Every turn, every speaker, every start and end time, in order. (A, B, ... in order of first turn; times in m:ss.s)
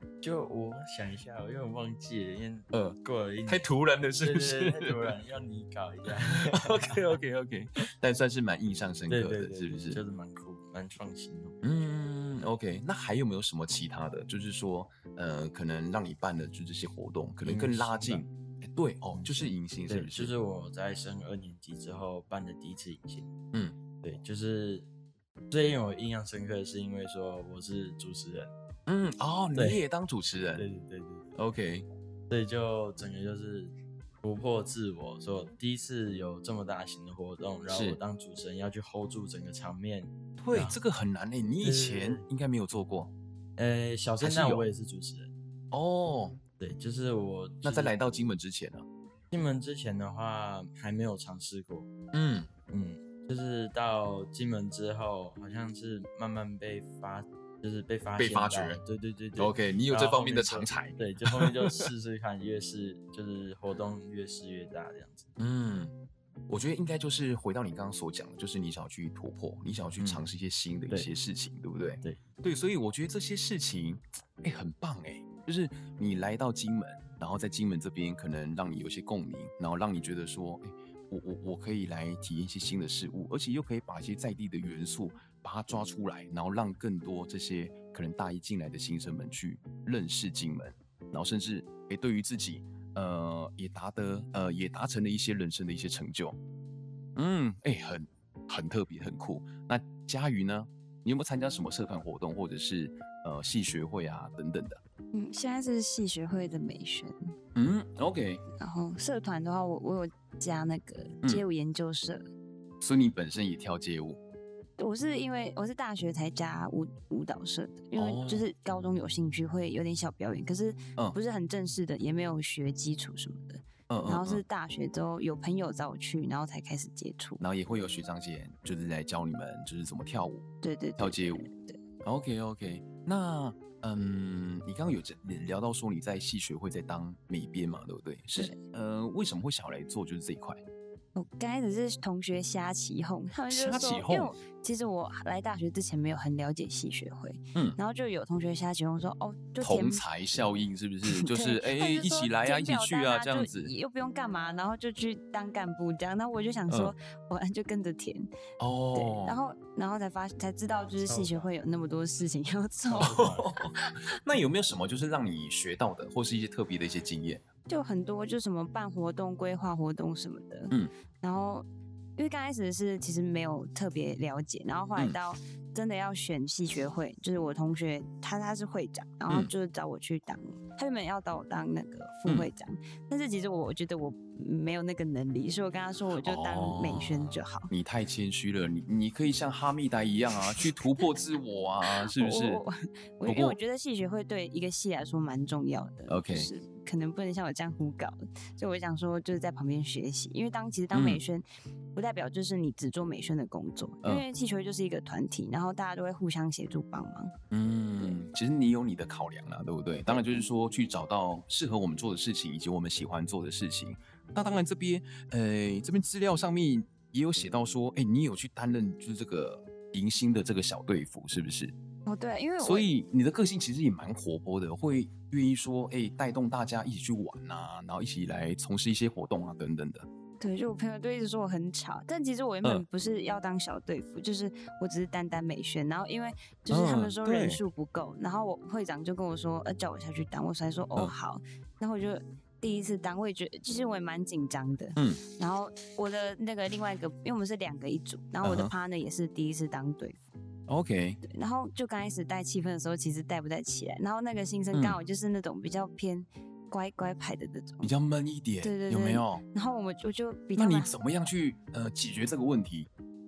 0:00.2-0:03.6 A
0:02.7-0:05.1 B
0:04.2-0:07.2 A
0:06.2-0:10.0 B
0:09.1-0:11.7 A
0:11.6-0:20.3 B
0:17.4-0:18.2 A
0:19.1-0:23.3 A
0:24.0-0:24.9 A
0:25.5-0:28.5 A
0:28.9-0:30.6 B
0:29.5-0:29.8 A
0:30.6-0:31.3 A
0:31.4-0:31.9 B
0:32.3-0:40.8 A
0:37.7-0:38.0 B
0:40.4-0:43.1 B
0:41.6-0:42.2 A
0:43.6-0:45.3 A
0:44.2-0:44.6 B
0:45.7-0:46.4 B
0:46.6-0:47.9 A
0:47.6-0:48.9 B
0:49.3-0:51.9 A
0:52.1-0:52.5 B
0:52.7-1:05.3 A
0:58.2-0:58.8 B
0:59.4-1:01.9 B
1:05.4-1:05.9 B
1:06.5-1:36.4 B
1:10.0-1:10.2 A
1:37.2-1:44.8 B
1:45.1-1:47.3 C
1:47.5-1:48.4 B
1:48.6-1:52.3 C
1:52.8-1:54.2 B
1:54.8-2:07.4 C
1:58.0-1:58.4 B
2:03.9-2:04.4 B
2:07.4-2:10.4 B
2:10.6-2:11.8 C
2:11.0-2:11.5 B
2:12.0-2:20.6 B
2:21.2-2:30.0 C
2:23.5-2:24.3 B
2:29.6-2:33.7 B
2:31.1-2:38.3 C
2:36.7-2:36.9 B
2:38.6-2:39.4 B
2:38.9-2:43.2 C
2:41.1-2:41.5 A
2:42.9-2:43.7 A
2:43.0-2:47.4 B
2:47.7-2:51.6 C
2:52.2-3:07.7 C
3:06.2-3:12.6 B
3:11.9-3:21.4 C
3:13.2-3:13.6 B
3:16.1-3:16.5 B
3:20.9-3:21.2 B
3:21.9-3:27.3 C
3:27.5-3:41.7 B
3:30.1-3:30.4 C
3:42.0-3:42.9 C
3:42.6-3:50.1 B
3:50.4-4:10.2 C
3:56.7-3:57.6 B
4:05.0-4:05.2 B
4:08.4-4:08.7 B
4:10.7-4:11.2 B
4:11.2-4:17.9 C
4:14.7-4:15.0 B
4:17.8-4:19.4 B
4:18.6-4:20.9 C
4:20.6-4:22.9 B